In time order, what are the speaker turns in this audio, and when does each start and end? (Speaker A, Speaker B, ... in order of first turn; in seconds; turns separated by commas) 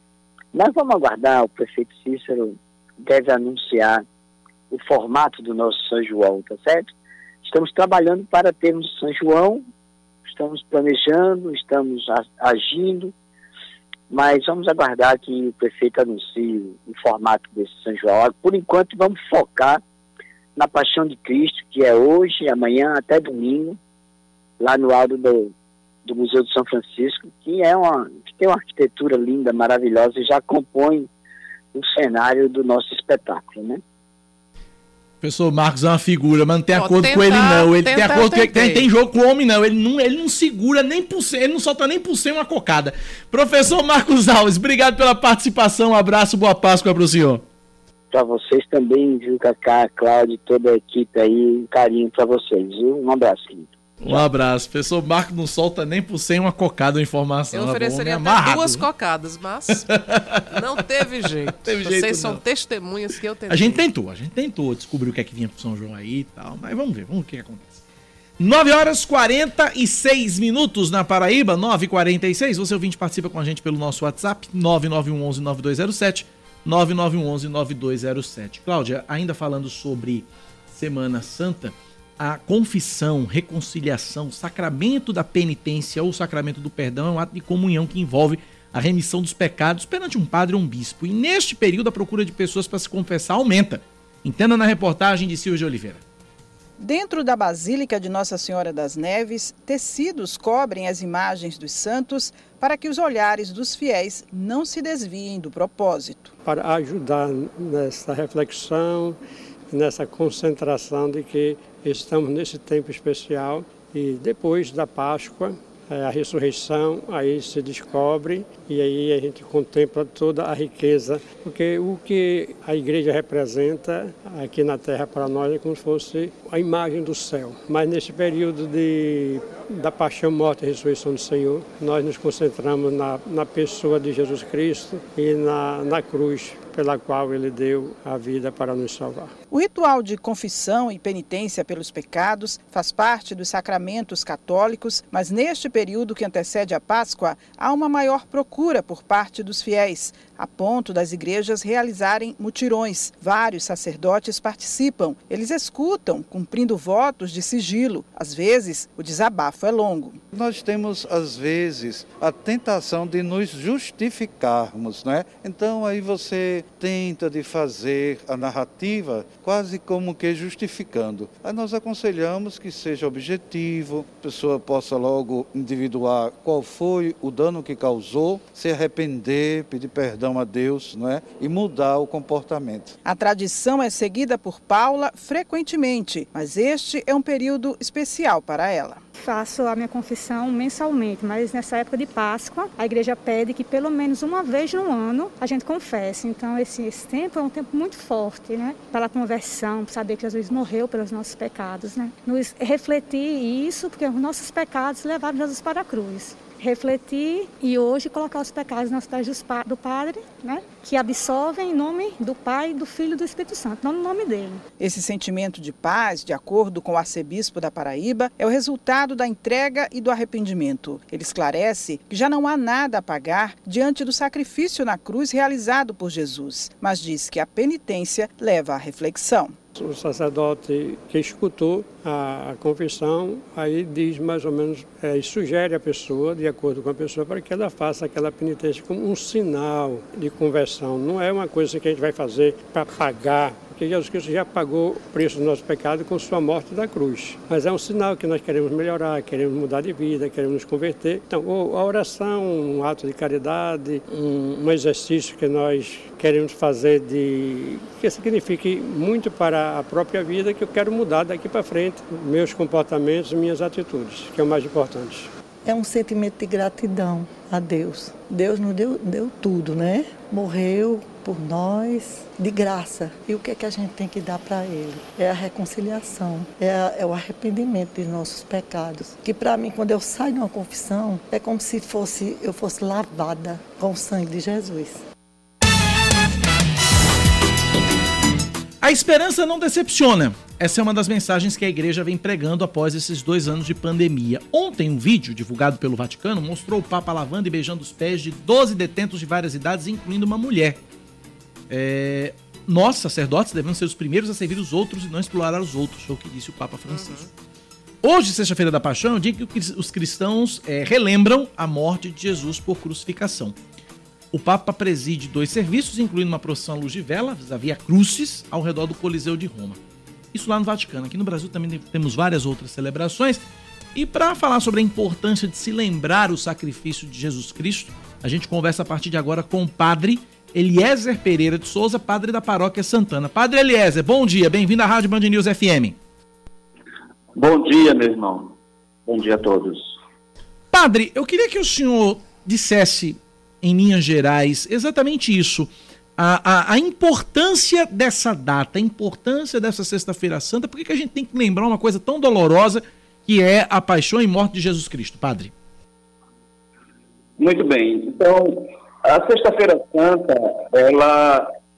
Speaker A: 0.5-4.0, Speaker A: 4.7-6.9, Speaker A: 7.4-9.6, Speaker A: 10.2-13.1, Speaker A: 14.1-19.8, Speaker A: 20.6-23.8, Speaker A: 24.6-25.5, Speaker A: 26.1-31.1, Speaker A: 31.7-33.8, Speaker B: 35.2-47.4, Speaker C: 36.7-38.9, Speaker A: 48.1-53.7, Speaker B: 54.0-58.9, Speaker C: 57.5-59.9, Speaker B: 59.9-60.5, Speaker C: 60.5-63.9, Speaker B: 61.6-62.4, Speaker B: 63.5-67.8, Speaker B: 68.4-96.0, Speaker D: 96.8-106.3, Speaker E: 106.5-109.2, Speaker E: 109.7-139.3, Speaker D: 139.5-160.2, Speaker F: 160.3-183.0, Speaker D: 183.1-189.0, Speaker G: 189.2-214.6, Speaker D: 214.8-229.6, Speaker E: 229.8-265.3, Speaker H: 265.6-285.0, Speaker B: 288.8-300.8, Speaker B: 301.7-307.3, Speaker C: 306.9-307.3, Speaker B: 308.0-313.6, Speaker B: 314.3-319.8, Speaker B: 320.3-323.4, Speaker B: 323.9-336.0, Speaker I: 337.4-338.6, Speaker I: 339.1-339.9, Speaker B: 340.7-355.5, Speaker I: 357.4-361.5